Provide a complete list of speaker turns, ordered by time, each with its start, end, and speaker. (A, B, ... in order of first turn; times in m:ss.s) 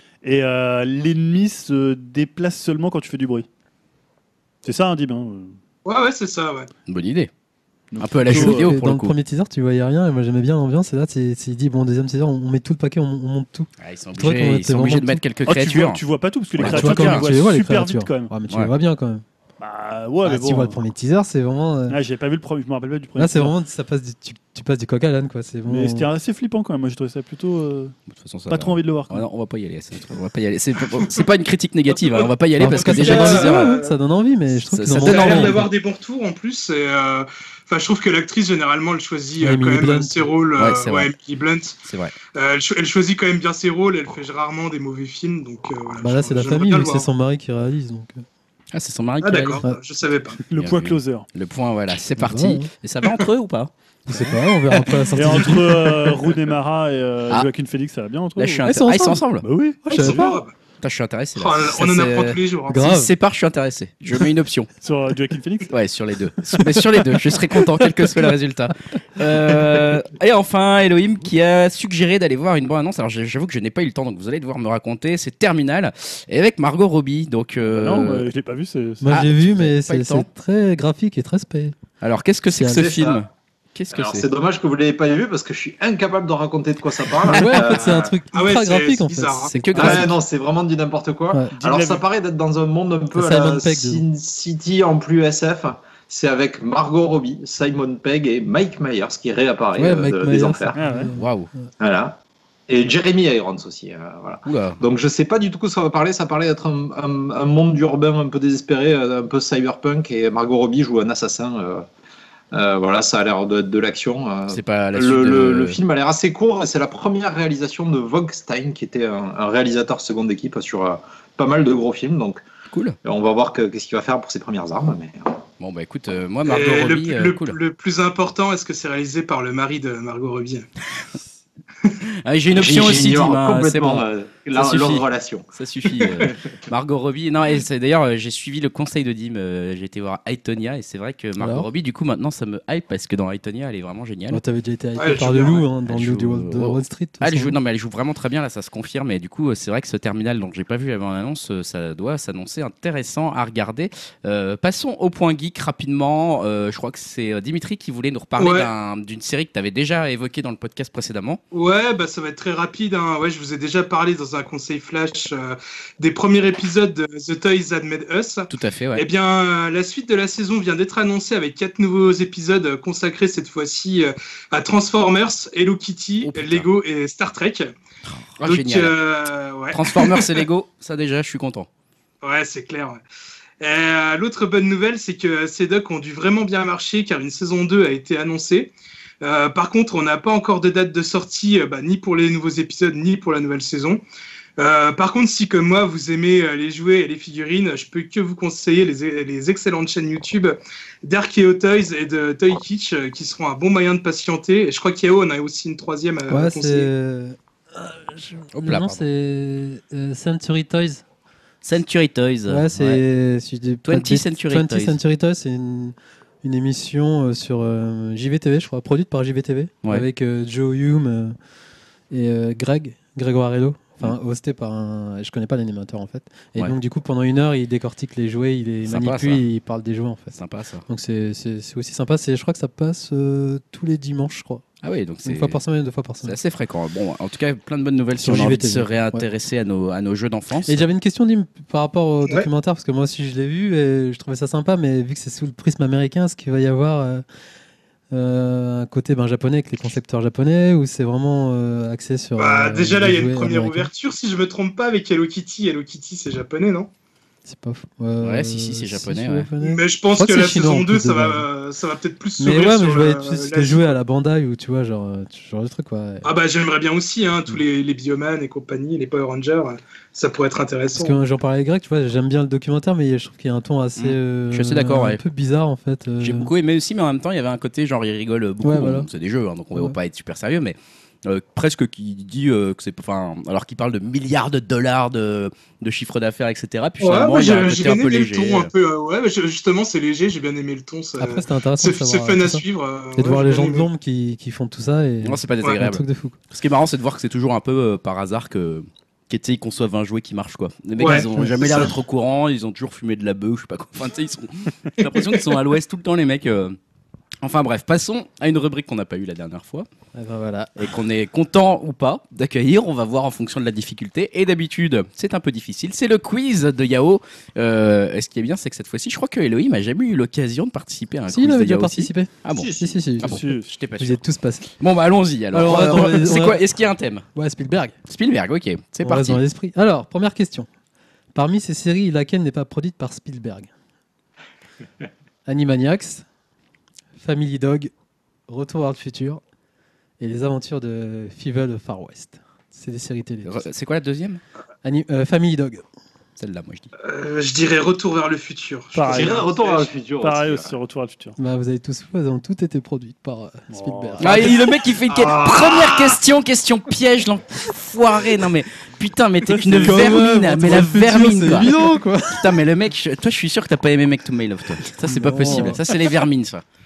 0:00.2-0:03.5 A
0:04.6-0:05.6 A
0:05.8-0:06.7 B
0:06.9-0:07.3 C
0:07.9-0:08.7 A
0:08.0-0:09.2 C
0:08.3-0:15.2 D
0:13.8-0:16.0 C
0:15.4-0:18.3 A
0:16.6-0:17.3 C
0:16.6-0:19.2 D
0:19.6-0:20.8 A
0:20.2-0:22.0 D
0:21.9-0:23.5 A
0:23.2-0:26.1 D
0:25.7-0:27.9 A
0:28.1-0:33.8 C
0:28.5-0:29.3 A
0:31.9-0:33.9 B
0:32.6-0:35.7 D
0:34.7-0:35.6 C
0:35.0-0:41.8 B
0:39.4-0:40.3 D
0:40.6-0:41.1 C
0:41.8-0:42.2 C
0:42.4-0:47.1 B
0:46.0-0:48.2 D
0:48.7-0:49.6 C
0:49.2-0:50.4 B
0:50.5-0:51.3 A
0:50.6-0:54.3 C
0:52.2-0:52.7 D
0:54.1-0:56.2 D
0:55.1-0:58.6 A
0:58.4-0:59.5 C
0:58.6-0:59.2 D
0:59.4-1:00.3 A
0:59.9-1:00.4 D
0:59.9-1:00.5 B
1:00.8-1:04.7 C
1:01.4-1:02.8 B
1:02.7-1:03.1 D
1:04.8-1:05.7 A
1:05.7-1:18.3 C
1:06.4-1:08.3 A
1:09.5-1:09.8 A
1:17.7-1:19.2 A
1:19.0-1:21.8 D
1:19.1-1:20.3 C
1:22.0-1:24.3 C
1:22.6-1:23.2 E
1:23.9-1:28.1 E
1:27.3-1:30.1 D
1:28.3-1:29.6 B
1:29.6-1:30.1 C
1:29.7-1:40.8 E
1:31.5-1:32.0 A
1:33.2-1:34.0 D
1:39.8-1:41.7 D
1:40.8-1:41.1 A
1:41.2-1:41.5 C
1:41.8-1:51.8 E
1:44.4-1:44.8 C
1:52.5-2:02.4 E
1:54.5-1:55.8 C
2:02.7-2:03.0 C
2:03.0-2:05.3 E
2:05.6-2:07.6 C
2:06.5-2:10.7 B
2:12.2-2:24.4 C
2:12.5-2:15.5 E
2:21.4-2:21.7 D
2:24.3-2:27.6 D
2:25.0-2:25.6 B
2:25.9-2:41.4 C
2:38.4-2:38.7 B
2:41.5-2:57.7 B
2:48.5-2:49.0 C
2:56.2-2:56.7 C
2:58.1-2:59.0 C
2:58.4-3:00.4 B
2:59.7-3:01.7 C
3:02.2-3:03.0 B
3:03.6-3:14.0 B
3:14.6-3:26.9 B
3:26.3-3:31.0 D
3:28.5-3:29.0 C
3:31.6-3:33.0 C
3:32.5-3:41.4 D
3:33.8-3:35.0 C
3:42.1-3:54.6 D
3:48.9-3:49.4 C
3:50.3-3:50.9 C
3:54.8-3:55.6 C
3:55.2-3:56.4 D
3:56.2-4:00.9 C
3:58.2-3:59.3 D
4:00.7-4:07.2 D
4:08.1-4:13.9 D
4:12.4-4:16.9 B
4:17.5-4:21.5 D
4:18.2-4:19.5 C
4:19.6-4:24.0 B
4:22.4-4:26.3 D
4:26.2-4:31.2 B
4:30.9-4:36.5 D
4:34.0-4:35.2 C
4:36.2-4:48.7 C
4:38.6-4:39.1 D
4:47.0-4:53.9 B
4:51.2-4:52.6 D
4:53.2-4:56.4 D
4:55.2-5:06.8 C
5:01.0-5:01.9 B
5:07.4-5:09.9 C
5:10.1-5:10.9 D
5:10.8-5:24.2 C
5:21.3-5:23.4 D
5:22.5-5:23.0 E
5:23.2-5:23.7 A
5:24.0-5:24.7 D
5:24.8-5:27.3 C
5:25.5-5:26.6 D
5:27.3-5:28.0 D
5:28.1-5:29.4 C
5:29.0-5:30.7 D
5:31.3-5:33.7 D
5:35.5-5:36.3 D
5:37.2-5:37.9 D
5:38.5-5:39.4 D
5:40.2-5:43.7 D
5:43.4-5:44.4 C
5:44.8-5:45.8 D
5:46.4-5:46.9 C
5:47.0-5:49.9 B
5:49.0-5:49.6 A
5:49.1-5:50.8 E
5:50.2-5:51.4 A
5:51.4-5:54.6 D
5:53.7-5:54.6 A
5:54.2-6:01.7 C
5:55.1-5:56.0 E
5:59.5-6:00.9 A
5:59.7-6:02.6 D
6:02.3-6:06.6 C
6:05.0-6:05.8 D
6:05.4-6:05.8 A